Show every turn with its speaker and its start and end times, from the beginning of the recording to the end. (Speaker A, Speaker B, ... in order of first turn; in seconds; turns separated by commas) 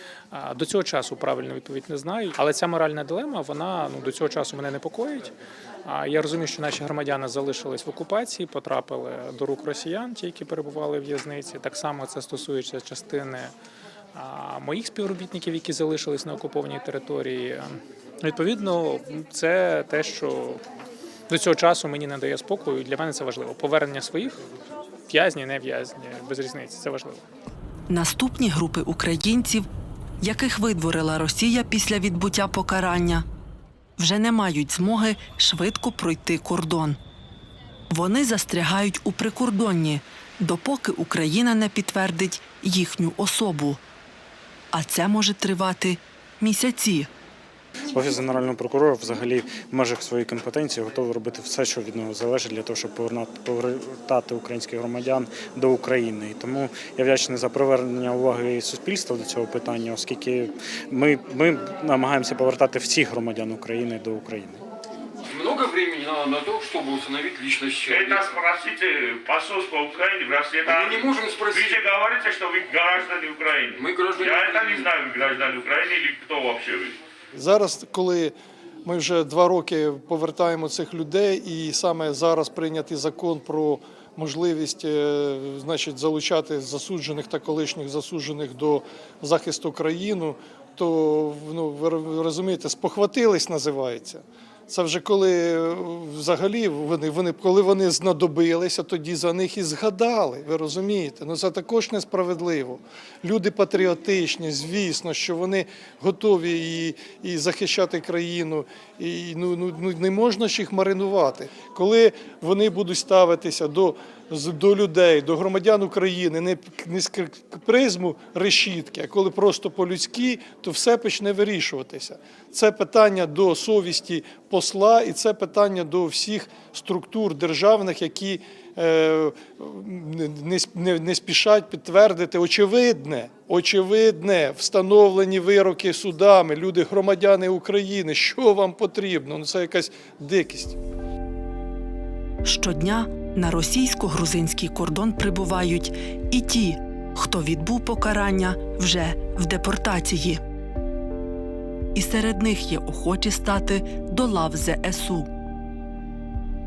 Speaker A: 0.3-5.3, Speaker A: 5.8-13.5, Speaker A: 14.1-20.6, Speaker A: 21.3-24.4, Speaker A: 25.1-27.2, Speaker B: 27.9-29.7, Speaker B: 30.2-33.2, Speaker B: 34.0-37.0, Speaker B: 37.9-43.8, Speaker B: 44.7-47.1, Speaker C: 47.9-64.6, Speaker D: 65.3-68.1, Speaker E: 67.9-77.0, Speaker D: 70.8-71.6, Speaker D: 73.8-74.8, Speaker F: 77.3-78.3, Speaker F: 78.8-140.8, Speaker B: 142.4-150.4, Speaker B: 151.9-155.3